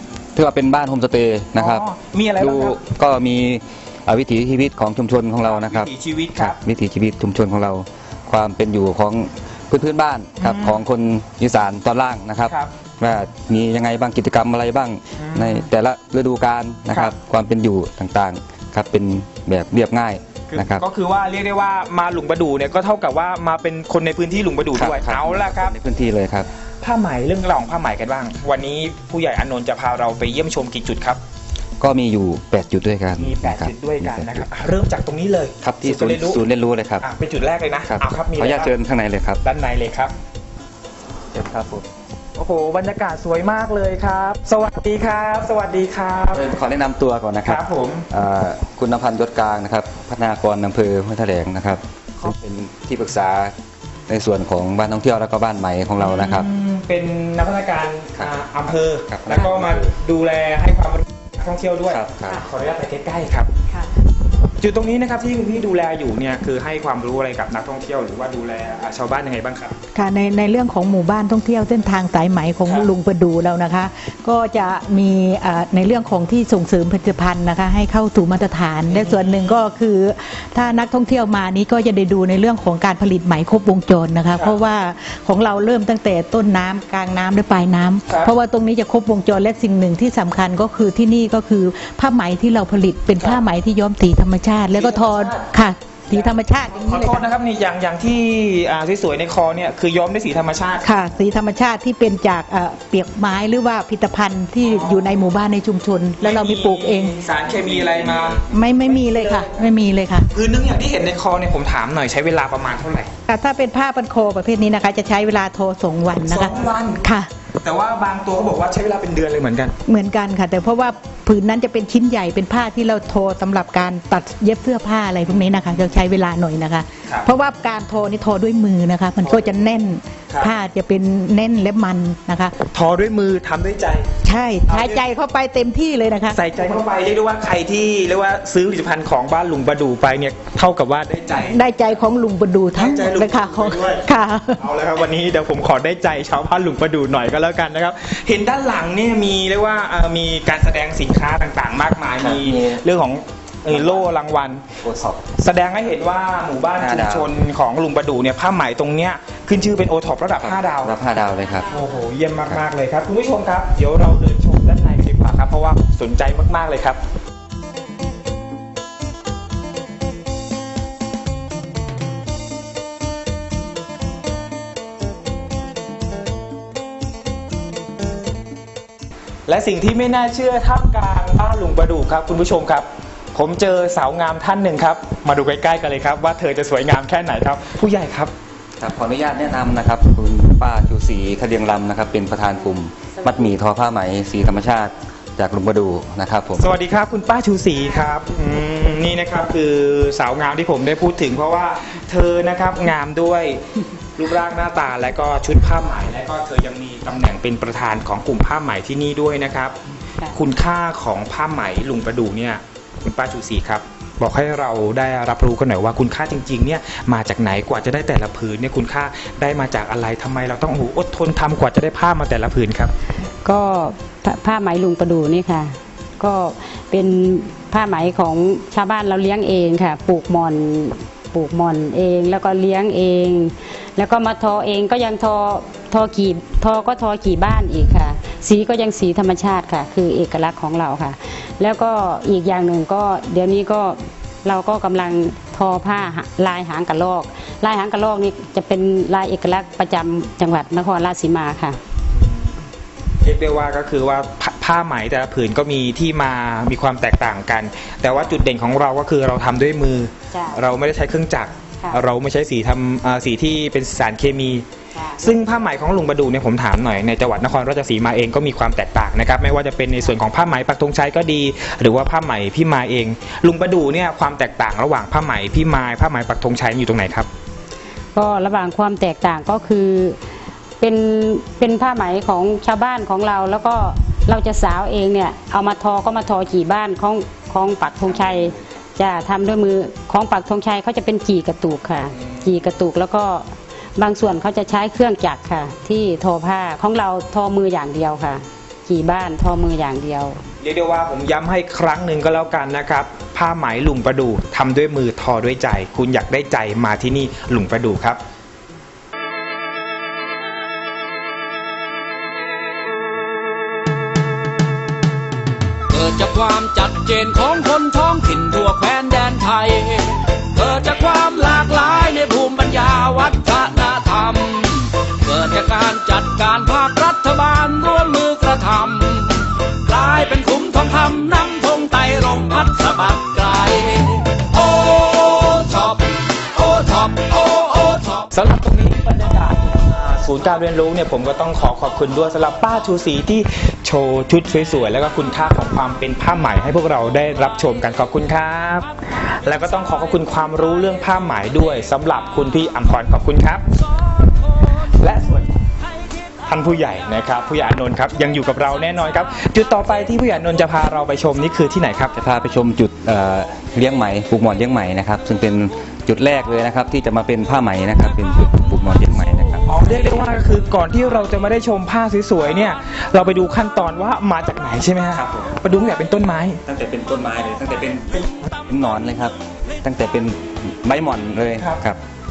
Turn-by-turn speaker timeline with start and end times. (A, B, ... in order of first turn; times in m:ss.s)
0:00.4-0:01.8 A
0:01.6-0:02.8 B
0:02.4-0:20.8 A
0:05.4-0:06.6 B
0:10.4-0:10.8 B
0:12.5-0:12.7 B
0:15.2-0:15.7 B
0:20.5-0:25.8 B
0:24.8-0:26.5 A
0:26.8-0:31.2 B
0:31.8-0:34.4 A
0:33.2-0:36.4 B
0:35.6-0:37.1 A
0:37.0-0:38.7 B
0:37.9-0:39.4 A
0:39.4-0:40.1 B
0:41.3-0:41.9 A
0:42.4-0:46.5 B
0:46.3-0:53.5 A
0:47.4-0:48.1 B
0:54.1-0:56.5 A
0:56.0-1:03.5 B
0:59.1-0:59.9 A
1:01.9-1:02.4 A
1:04.6-1:09.8 B
1:10.0-1:37.3 C
1:12.6-1:12.9 B
1:18.9-1:19.6 B
1:24.3-1:24.6 B
1:28.1-1:28.4 B
1:33.2-1:33.4 B
1:34.7-1:35.4 B
1:36.1-1:40.9 B
1:40.8-1:47.2 C
1:44.6-1:45.2 B
1:46.2-1:49.5 B
1:48.5-1:50.3 C
1:50.3-1:53.1 B
1:53.3-1:57.3 C
1:56.2-1:57.0 B
1:57.6-1:59.8 B
1:59.9-2:12.6 C
2:05.2-2:06.0 B
2:09.2-2:09.6 B
2:12.7-2:14.1 B
2:14.2-2:16.4 C
2:14.7-2:15.0 B
2:16.3-2:22.0 B
2:21.3-2:24.6 C
2:22.8-2:24.0 B
2:24.6-2:34.7 B
2:32.2-2:32.8 A
2:33.7-2:34.1 A
2:34.8-2:35.2 A
2:35.4-2:40.9 B
2:36.8-2:37.3 A
2:40.4-2:41.7 A
2:41.7-2:47.0 B
2:59.5-3:08.3 B
3:08.8-3:16.7 A
3:16.6-3:23.6 B
3:24.2-3:29.8 B
3:30.3-3:42.9 B
3:43.4-4:11.8 D
4:12.2-4:12.6 B
4:13.2-4:24.6 B
4:20.3-4:20.6 D
4:24.9-4:25.3 D
4:25.2-4:37.3 B
4:38.2-4:40.2 D
4:40.8-5:00.4 D
4:52.2-4:52.4 B
5:00.6-5:08.2 B
5:15.9-5:38.3 E
5:38.3-5:48.9 B
5:49.4-5:53.6 B
5:55.0-5:55.5 B
5:56.5-6:02.1 B
6:02.2-6:09.7 A
6:09.7-6:16.6 B
6:15.1-6:15.5 A
6:16.7-6:22.0 A